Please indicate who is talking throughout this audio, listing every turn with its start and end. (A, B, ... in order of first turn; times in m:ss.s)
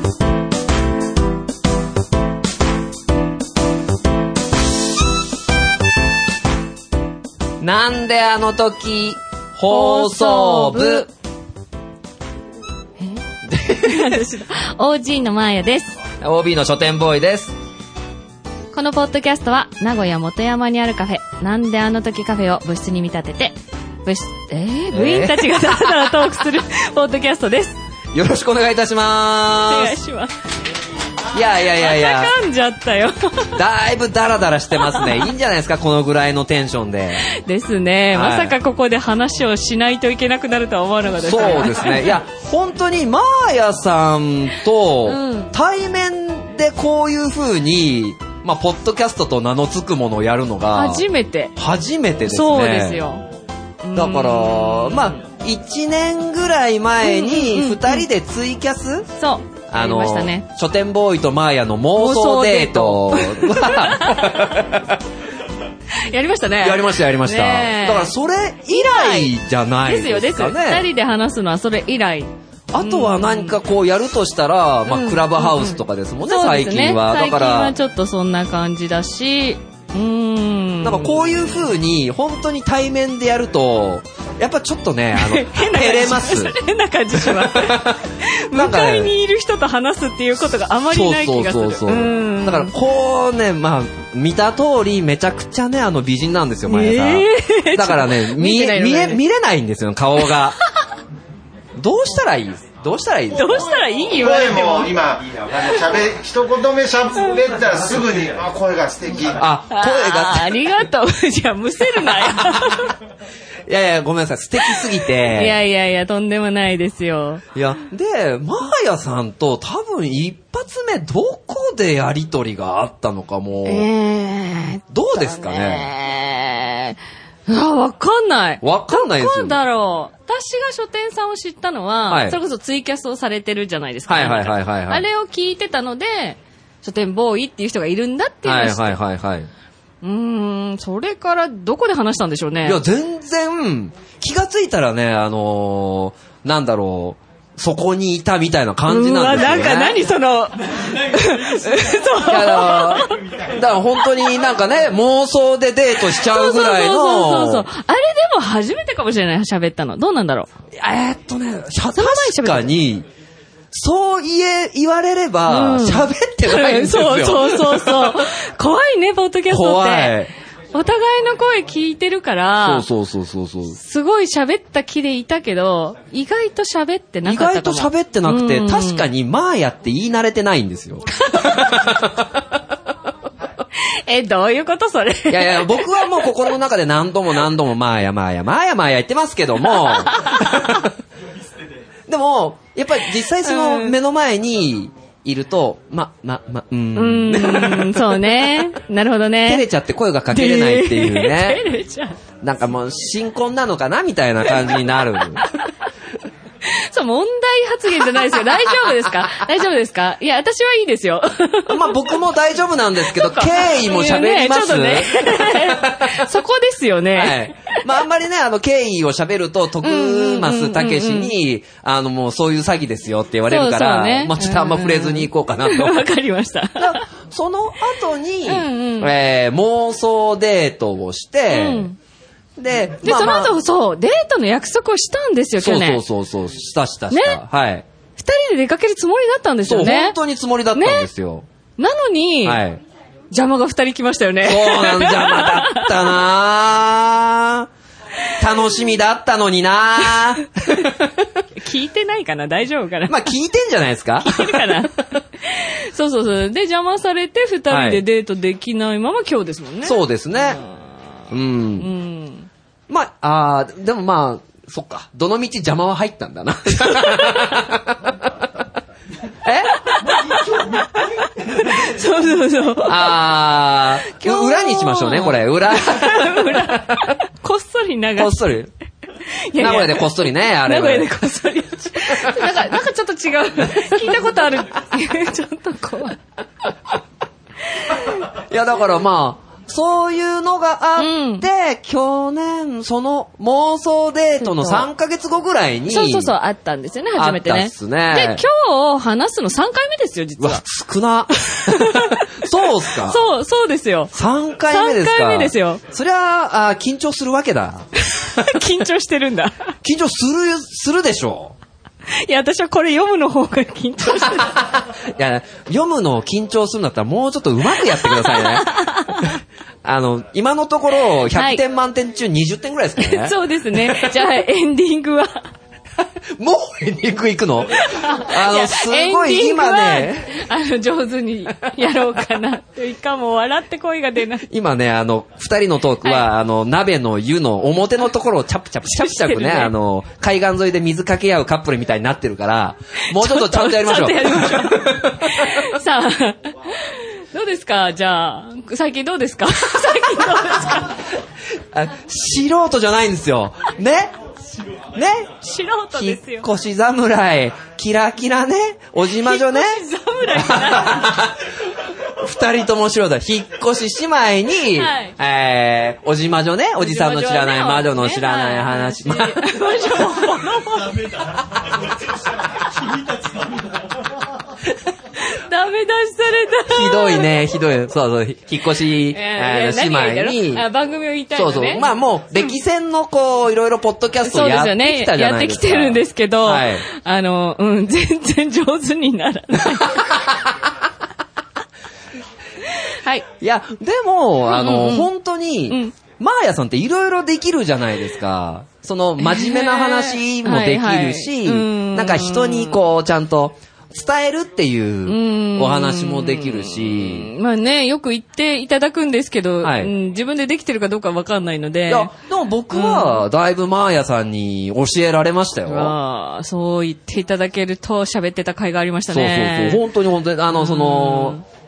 0:07.6-0:11.1 A
0:09.7-0:11.1 B
0:13.5-0:14.3 A
0:13.8-0:16.0 B
0:16.2-0:17.5 A
0:18.7-0:27.8 B
0:24.9-0:26.2 A
0:28.1-0:30.0 A
0:29.7-0:30.4 B
0:31.3-0:32.4 A
0:31.7-0:33.6 B
0:33.6-0:37.2 A
0:34.8-0:35.3 B
0:37.2-0:42.2 B
0:38.1-0:38.6 A
0:41.2-0:53.0 A
0:45.0-0:45.5 B
0:50.7-0:51.5 B
0:52.3-0:53.2 B
0:53.8-0:55.2 B
0:53.9-0:59.1 A
0:57.0-0:58.1 B
0:59.2-1:00.5 B
0:59.7-1:05.0 A
1:02.0-1:04.7 B
1:06.1-1:08.1 B
1:06.6-1:10.9 A
1:08.7-1:09.3 B
1:09.8-1:13.6 B
1:12.7-1:17.8 A
1:14.9-1:21.2 B
1:20.8-1:26.6 A
1:25.1-1:32.7 B
1:27.2-1:29.1 A
1:30.9-1:40.6 A
1:36.6-1:39.2 B
1:41.8-1:43.7 A
1:43.3-1:46.0 B
1:44.4-1:49.2 C
1:47.1-1:48.2 B
1:49.1-1:53.0 B
1:49.4-1:50.6 A
1:52.1-1:52.7 A
1:53.7-1:55.6 A
1:54.6-1:57.4 B
1:57.6-2:03.9 A
2:03.7-2:19.0 B
2:04.9-2:05.9 A
2:08.6-2:09.6 A
2:12.1-2:12.4 A
2:14.1-2:15.1 A
2:18.4-2:19.5 A
2:20.0-2:22.8 B
2:22.6-2:30.0 A
2:28.9-2:33.2 B
2:32.2-2:37.7 A
2:36.1-2:40.5 B
2:40.8-2:43.1 A
2:41.9-2:42.7 B
2:43.7-2:48.3 A
2:45.5-2:50.2 B
2:49.5-2:50.3 A
2:50.7-2:52.9 B
2:52.6-2:53.8 A
2:53.7-2:59.1 B
2:57.2-3:02.4 A
3:01.2-3:01.9 B
3:03.8-3:06.4 B
3:05.3-3:10.9 A
3:09.6-3:10.8 B
3:12.1-3:18.7 A
3:13.3-3:14.0 B
3:17.0-3:19.6 B
3:19.5-3:21.6 A
3:20.3-3:22.2 B
3:22.4-3:25.4 A
3:26.6-3:32.2 B
3:28.2-3:29.0 A
3:31.7-3:36.2 A
3:33.1-3:37.8 B
3:37.2-3:46.0 A
3:39.8-3:41.4 B
3:43.5-3:47.0 B
3:46.8-3:51.9 A
3:48.5-3:49.1 B
3:51.5-3:52.0 B
3:52.6-3:53.6 A
3:53.0-3:56.0 B
3:55.6-3:57.8 A
3:57.1-3:57.4 B
3:58.2-4:00.2 B
3:59.6-4:01.5 A
4:00.8-4:01.1 B
4:01.8-4:02.6 B
4:02.4-4:02.8 A
4:03.3-4:06.2 B
4:04.4-4:07.7 A
4:08.4-4:11.3 A
4:11.6-4:13.3 B
4:13.1-4:14.9 A
4:14.2-4:20.8 B
4:17.7-4:18.0 A
4:19.8-4:20.6 A
4:21.3-4:21.9 A
4:21.8-4:22.5 B
4:22.9-4:28.3 A
4:26.8-4:27.6 B
4:29.4-4:30.4 A
4:29.9-4:33.2 B
4:32.8-4:37.0 A
4:34.0-4:38.5 B
4:38.2-4:38.7 A
4:39.3-4:46.2 B
4:39.6-4:41.1 A
4:42.1-4:42.6 A
4:43.8-4:44.2 A
4:47.8-4:48.2 B
4:48.3-4:56.4 A
4:51.0-4:51.5 B
4:54.4-4:54.9 B
4:55.9-5:00.6 B
4:57.2-4:58.4 A
5:00.4-5:03.2 A
5:01.6-5:04.1 B
5:04.1-5:07.8 A
5:04.7-5:05.8 B
5:08.0-5:09.7 B
5:09.8-5:11.6 A
5:12.1-5:14.6 B
5:14.3-5:24.2 A
5:17.8-5:19.3 B
5:21.3-5:21.6 B
5:23.0-5:25.5 B
5:26.4-5:30.4 A
5:27.8-5:34.5 B
5:34.5-5:45.7 A
5:36.0-5:36.3 B
5:38.9-5:39.7 B
5:43.1-5:51.0 B
5:51.7-5:54.2 A
5:54.9-5:55.4 A
5:55.4-5:56.5 B
5:55.9-6:01.4 A
5:59.0-6:01.2 B
6:02.2-6:09.4 A
6:04.8-6:05.2 B
6:06.8-6:11.0 B
6:15.2-6:17.3 B
6:16.7-6:20.7 A
6:19.1-6:21.9 B
6:21.4-6:26.9 A
6:24.2-6:30.3 B
6:32.7-6:33.3 B
6:33.4-6:47.3 A
6:34.4-6:35.1 B
6:35.7-6:36.0 B
6:39.2-6:42.8 B
6:45.1-6:52.1 B
6:49.6-6:49.9 A
6:51.9-6:55.9 A
6:52.7-6:53.2 B
6:55.7-6:59.9 B
6:59.1-7:01.4 A
7:00.5-7:01.4 B